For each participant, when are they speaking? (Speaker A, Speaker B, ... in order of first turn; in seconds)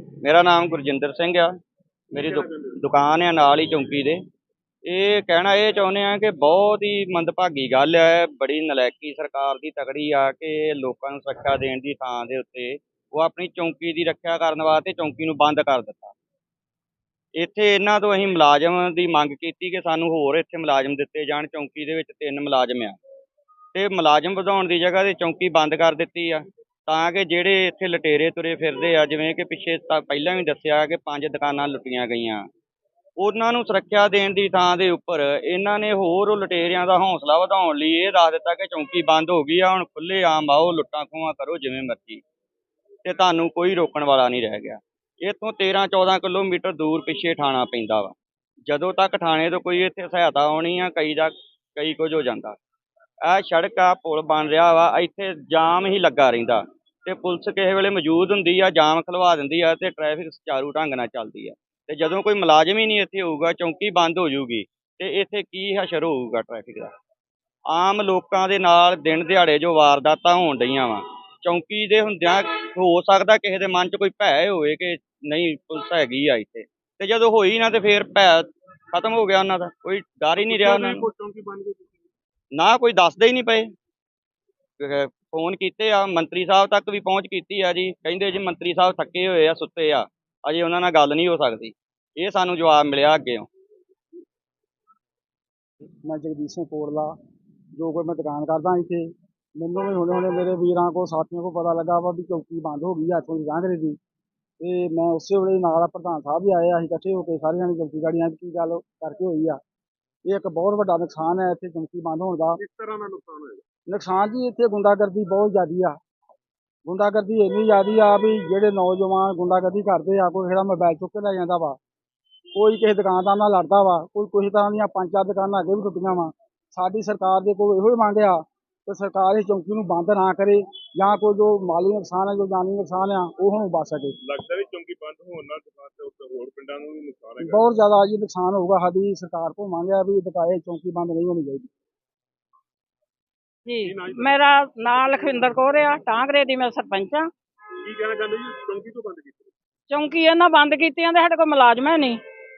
Speaker A: 0.2-1.5, 2.1-4.2, 4.9-16.1, 17.4-23.0, 23.8-32.5, 33.2-42.2, 43.0-48.1, 48.7-52.6, 53.3-66.9, 67.7-81.1, 82.5-83.7, 84.8-93.5
Speaker B: 2.1-2.8, 80.4-81.9, 112.6-113.6, 134.2-137.8, 143.9-144.2, 147.8-149.5
Speaker C: 96.1-97.2, 97.8-104.0, 104.6-109.6, 110.3-112.6, 113.9-116.0, 116.9-121.8, 122.6-134.2, 137.4-141.7
Speaker D: 143.7-147.3, 149.9-152.2